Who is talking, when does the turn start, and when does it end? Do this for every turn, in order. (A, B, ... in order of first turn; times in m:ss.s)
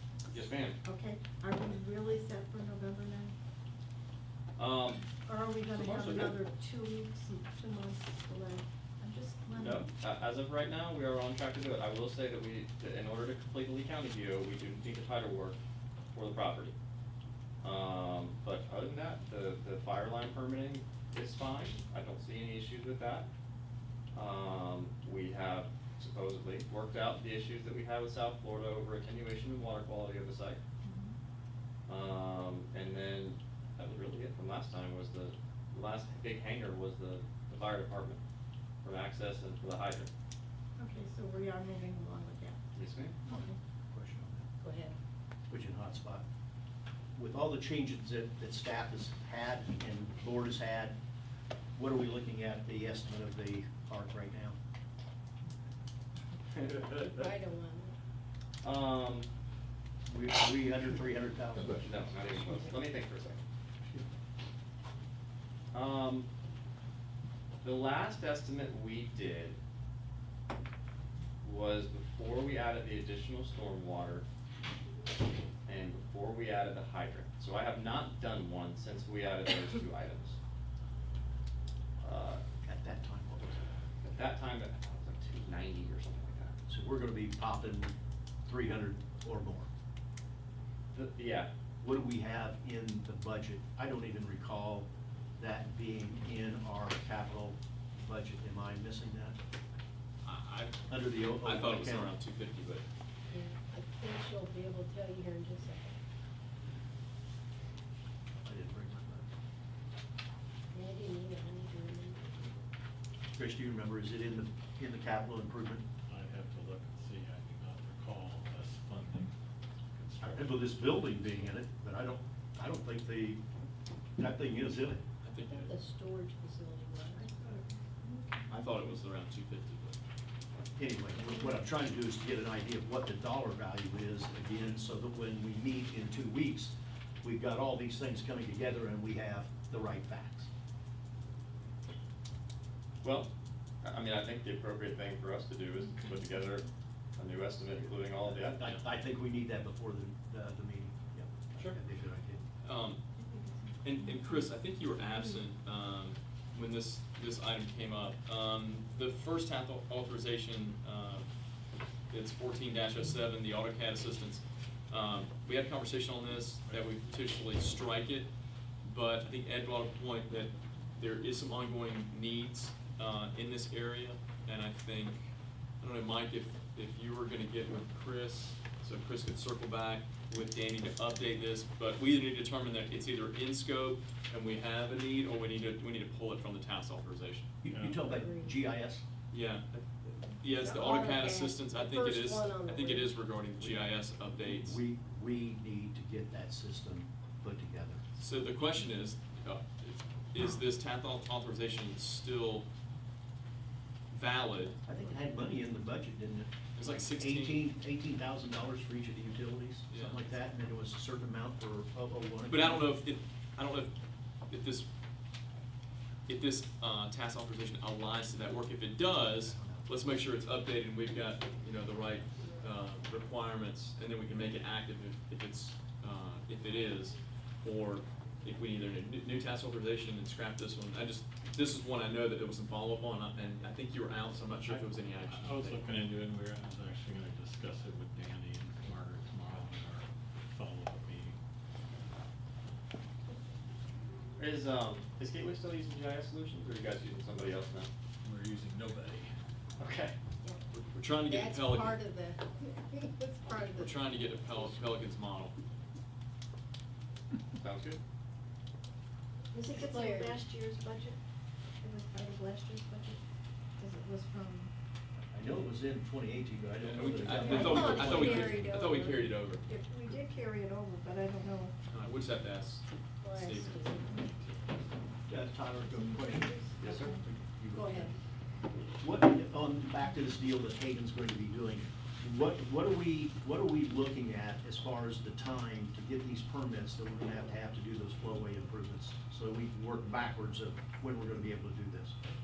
0:00.3-0:00.8 A
0:00.8-0:03.4 B
0:04.6-0:05.0 A
0:05.2-0:09.9 B
0:05.7-0:06.3 A
0:09.5-0:15.6 A
0:16.1-0:16.8 A
0:17.6-0:23.3 A
0:24.1-0:30.6 A
0:30.8-0:31.2 B
0:31.9-0:38.2 A
0:38.8-0:40.1 A
0:40.8-0:42.6 B
0:42.7-0:43.2 A
0:43.2-0:43.6 B
0:43.3-0:44.5 C
0:44.6-0:45.0 D
0:45.5-0:46.2 C
0:47.2-0:51.0 C
0:51.8-0:54.6 C
0:56.6-0:57.0 A
0:57.0-0:58.0 D
0:58.6-0:59.3 A
1:00.1-1:02.3 C
1:01.8-1:03.4 A
1:05.7-1:06.3 A
1:07.6-1:09.6 A
1:11.4-1:14.2 A
1:15.7-1:20.4 A
1:22.0-1:22.4 A
1:22.6-1:23.7 C
1:24.0-1:26.5 A
1:26.7-1:27.9 C
1:28.4-1:29.7 C
1:30.9-1:31.5 A
1:31.8-1:39.4 C
1:40.2-1:42.8 E
1:40.9-1:42.1 C
1:43.3-1:46.0 D
1:48.4-1:49.3 C
1:50.7-1:52.3 D
1:53.4-1:55.8 C
1:56.1-1:59.4 F
1:59.9-2:00.8 F
2:00.2-2:03.4 C
2:04.2-2:05.0 C
2:05.2-2:05.7 E
2:05.5-2:07.2 D
2:07.1-2:08.6 B
2:08.5-2:10.0 E
2:10.8-2:20.5 C
2:23.0-2:23.3 A
2:23.8-2:28.6 A
2:25.8-2:26.5 B
2:28.3-2:32.4 C
2:32.6-2:33.0 E
2:33.2-2:34.5 B
2:33.8-2:41.3 E
2:42.1-2:48.3 E
2:48.8-3:07.5 E
3:07.6-3:09.0 C
3:07.7-3:08.2 F
3:08.2-3:08.6 D
3:09.3-3:14.8 E
3:10.6-3:13.2 D
3:13.6-3:13.8 C
3:14.4-3:18.0 C
3:18.2-3:22.7 E
3:24.1-3:24.8 E
3:24.9-3:32.9 C
3:26.8-3:27.7 E
3:29.9-3:30.3 E
3:32.5-3:33.9 E
3:34.5-3:34.9 E
3:36.3-3:55.9 E
3:39.1-3:39.9 C
3:54.7-4:01.4 F
4:04.4-4:07.9 A
4:08.2-4:09.3 F
4:09.8-4:10.2 A
4:10.7-4:12.0 E
4:11.2-4:14.0 D
4:13.8-4:15.6 E
4:17.6-4:18.0 A
4:19.5-4:20.4 D
4:19.6-4:21.2 B
4:21.8-4:23.2 B
4:23.8-4:24.7 B
4:25.2-4:28.6 C
4:26.8-4:29.7 E
4:27.0-4:28.7 B
4:27.4-4:29.3 D
4:29.7-4:31.8 B
4:31.9-4:34.7 E
4:33.2-4:34.2 D
4:35.3-4:38.1 C
4:35.8-4:37.2 B
4:36.8-4:37.1 A
4:37.7-4:38.2 D
4:39.0-4:52.2 C